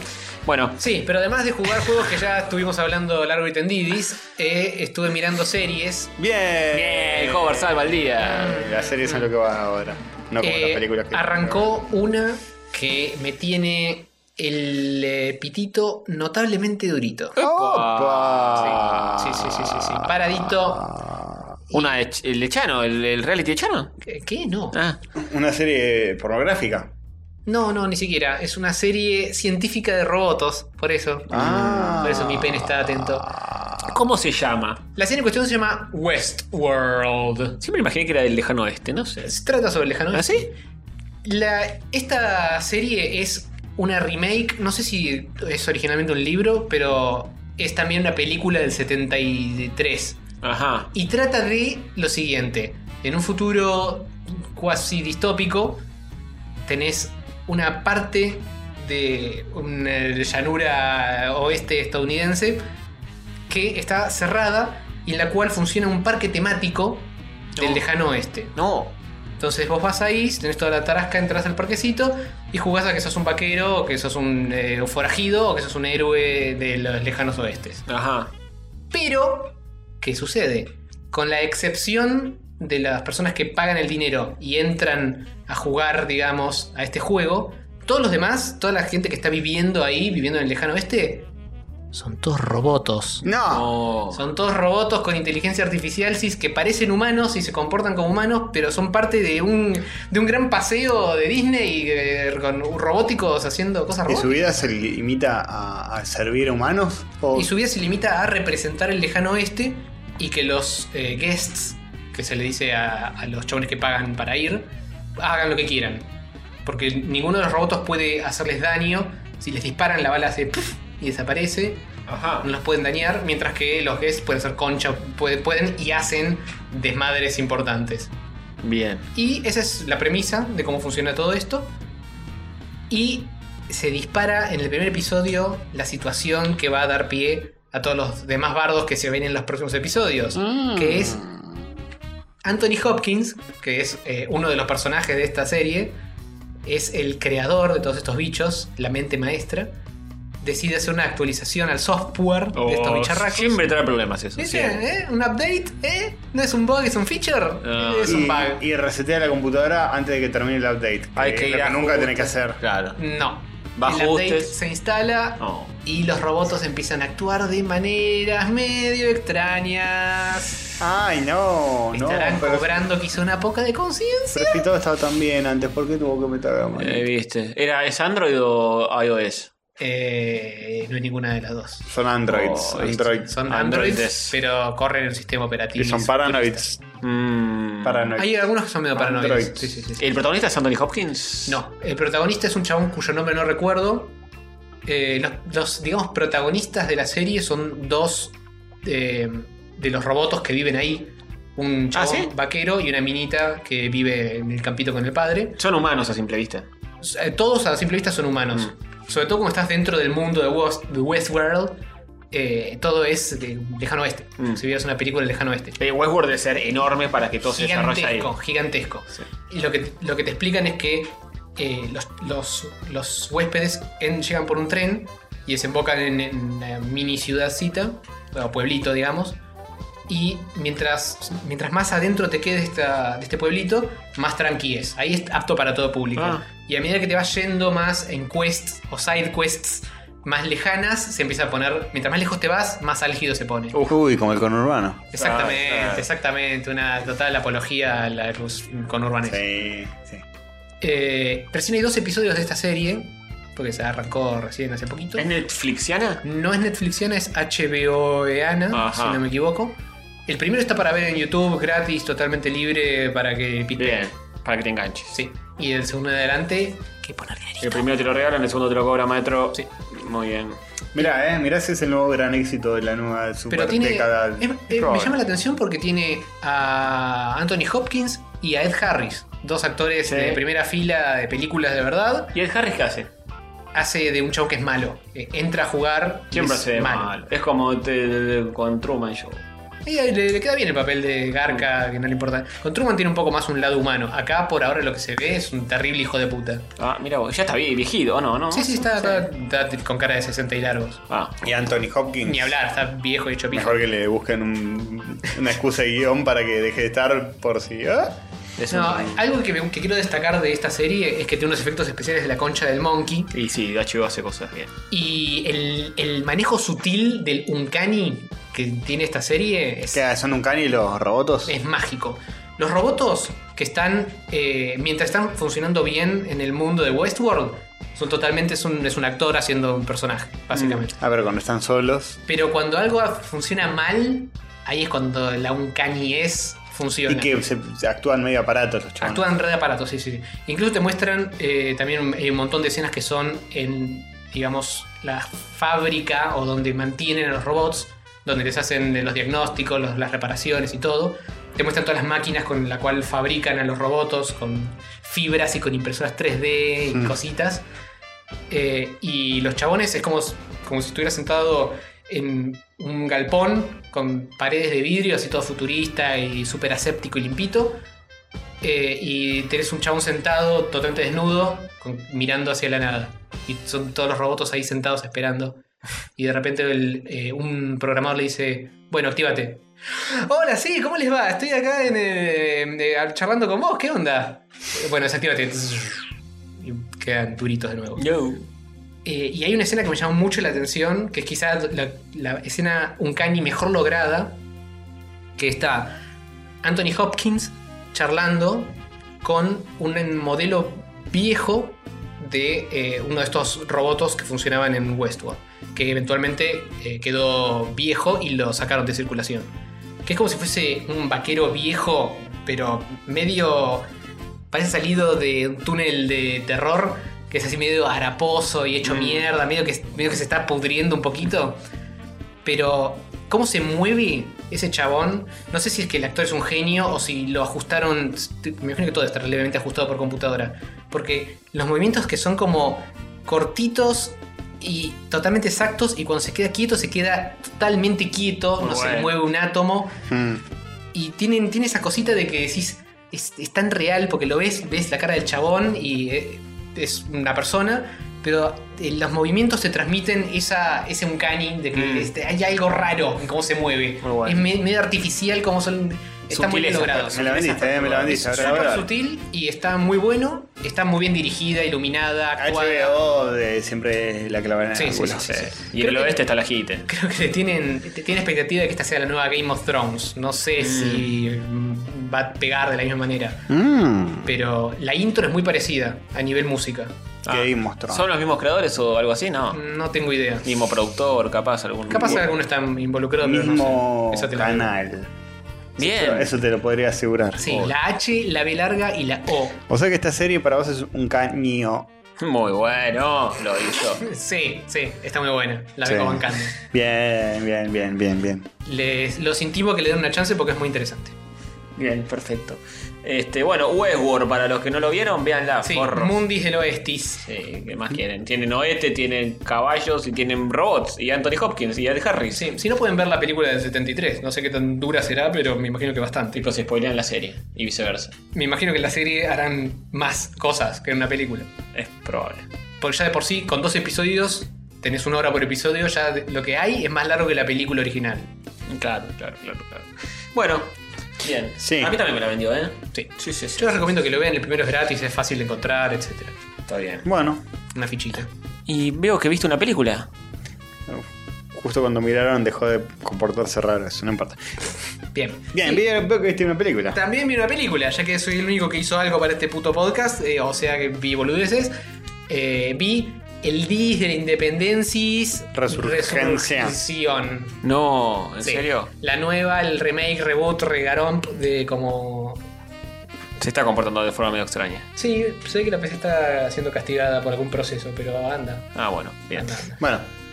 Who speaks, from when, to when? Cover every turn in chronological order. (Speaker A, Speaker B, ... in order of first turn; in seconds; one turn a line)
Speaker A: 0.5-0.8
Speaker B: 0.8-6.1
Speaker C: 6.2-11.7
Speaker A: 6.7-8.6
Speaker B: 8.5-9.2
Speaker B: 10.4-17.4
Speaker A: 17.4-19.1
Speaker C: 17.4-21.5
Speaker B: 18.5-20.9
Speaker A: 21.7-23.9
Speaker B: 24.0-24.8
Speaker A: 24.7-25.0
Speaker C: 25.1-26.9
Speaker B: 27.4-33.3
Speaker C: 31.3-34.0
Speaker A: 31.3-32.0
Speaker A: 33.8-34.8
Speaker B: 35.0-37.6
Speaker A: 37.6-39.3
Speaker B: 39.2-40.5
Speaker A: 40.1-40.5
Speaker B: 41.2-50.2
Speaker A: 50.4-50.9
Speaker B: 50.9-55.8
Speaker B: 56.6-62.6
Speaker B: 63.5-68.5
Speaker A: 67.5-67.8
Speaker A: 68.5-68.9
Speaker B: 69.4-77.8
Speaker A: 77.9-78.3
Speaker B: 78.9-91.3
Speaker B: 91.9-93.3
Speaker C: 93.2-93.7
Speaker A: 93.5-94.2
Speaker B: 94.1-104.6
Speaker C: 104.1-107.5
Speaker B: 107.3-116.1
Speaker B: 116.6-121.8
Speaker A: 122.1-122.5
Speaker B: 122.4-128.1
Speaker A: 128.6-129.1
Speaker B: 129.1-131.7
Speaker B: 132.9-141.2
Speaker C: 140.4-141.5
Speaker B: 142.4-146.0
Speaker B: 146.6-149.7
Speaker B: 150.4-153.6
Speaker A: 152.5-154.8
Speaker B: 154.4-158.6
Speaker A: 157.6-158.2
Speaker C: 158.0-162.6
Speaker A: 161.2-163.0
Speaker B: 163.0-170.6
Speaker A: 163.8-164.5
Speaker A: 165.4-165.7
Speaker C: 170.8-172.8
Speaker B: 171.9-174.6
Speaker C: 174.3-177.1
Speaker A: 176.8-179.5
Speaker B: 179.8-181.9
Speaker C: 181.8-183.3
Speaker A: 182.3-184.3
Speaker B: 183.2-186.6
Speaker C: 185.8-186.8
Speaker A: 187.0-188.1
Speaker C: 187.8-189.7
Speaker B: 188.2-190.1
Speaker A: 190.0-191.6
Speaker B: 191.5-194.1
Speaker B: 194.8-205.6
Speaker A: 201.9-202.3
Speaker A: 205.6-206.7
Speaker B: 207.0-215.8
Speaker A: 215.8-218.3
Speaker B: 217.4-229.4
Speaker B: 230.1-243.7
Speaker A: 236.2-236.4
Speaker C: 243.8-245.0
Speaker B: 245.1-249.4
Speaker A: 245.2-246.1
Speaker C: 249.2-250.2
Speaker B: 250.8-255.2
Speaker A: 255.2-256.2
Speaker B: 256.2-264.1
Speaker A: 258.7-259.2
Speaker A: 263.8-265.1
Speaker B: 265.1-267.9
Speaker A: 267.6-270.6
Speaker C: 270.9-274.5
Speaker B: 273.5-282.3
Speaker A: 274.7-275.1
Speaker A: 280.1-280.4
Speaker A: 282.3-283.1
Speaker B: 283.7-287.2
Speaker A: 286.3-289.4
Speaker B: 289.8-296.7
Speaker A: 296.8-299.3
Speaker B: 298.5-301.0
Speaker A: 301.1-301.4
Speaker C: 301.4-302.6
Speaker B: 302.2-303.8
Speaker C: 303.5-308.2
Speaker A: 308.6-309.2
Speaker B: 308.7-313.3
Speaker A: 313.3-314.7
Speaker B: 314.9-320.0
Speaker C: 319.9-321.5
Speaker B: 321.5-331.0
Speaker A: 330.5-330.8
Speaker C: 331.0-332.2
Speaker B: 332.3-337.3
Speaker C: 337.1-339.3
Speaker B: 339.0-357.6
Speaker B: 358.5-367.8
Speaker B: 368.6-375.6
Speaker B: 376.1-386.0
Speaker B: 386.6-388.0
Speaker A: 388.0-388.5
Speaker B: 389.0-394.4
Speaker B: 395.4-395.9
Speaker B: 396.6-409.5
Speaker B: 410.0-413.9
Speaker B: 414.5-421.6
Speaker A: 418.8-419.3
Speaker B: 422.4-440.0
Speaker A: 438.6-439.1
Speaker C: 440.1-440.4
Speaker B: 440.9-457.3
Speaker A: 451.7-452.1
Speaker A: 454.0-454.5
Speaker A: 456.3-458.8
Speaker C: 457.1-458.9
Speaker B: 458.2-463.0
Speaker C: 462.4-465.3
Speaker B: 464.7-466.2
Speaker A: 465.3-466.9
Speaker B: 466.9-473.4
Speaker A: 470.6-471.1
Speaker C: 473.5-474.3
Speaker B: 474.2-476.9
Speaker A: 477.2-479.6
Speaker C: 477.3-478.1
Speaker B: 479.5-480.5
Speaker A: 480.4-482.3
Speaker B: 481.9-484.7
Speaker C: 483.2-485.1
Speaker A: 485.8-486.3
Speaker C: 485.8-487.4
Speaker B: 487.4-489.6
Speaker A: 487.4-487.7
Speaker C: 489.7-491.9
Speaker A: 492.2-494.0
Speaker B: 494.0-496.5
Speaker C: 495.8-498.5
Speaker B: 498.6-501.1
Speaker A: 501.8-506.2
Speaker B: 505.6-507.2
Speaker A: 507.2-512.5
Speaker B: 512.3-516.4
Speaker A: 516.3-518.1
Speaker B: 518.3-521.5
Speaker A: 521.7-522.5
Speaker B: 522.8-528.3
Speaker A: 528.7-533.9
Speaker C: 531.6-531.9
Speaker B: 532.9-536.3
Speaker A: 536.7-537.0
Speaker C: 537.0-537.4
Speaker B: 537.7-538.3
Speaker A: 538.7-540.1
Speaker C: 540.9-544.7
Speaker B: 545.1-545.8
Speaker C: 545.5-547.0
Speaker B: 546.9-551.7
Speaker B: 552.3-557.6
Speaker C: 555.5-556.8
Speaker A: 557.6-558.9
Speaker B: 558.4-562.4
Speaker A: 563.4-564.9
Speaker B: 565.0-568.7
Speaker A: 568.8-569.6
Speaker B: 569.3-569.8
Speaker C: 569.8-570.1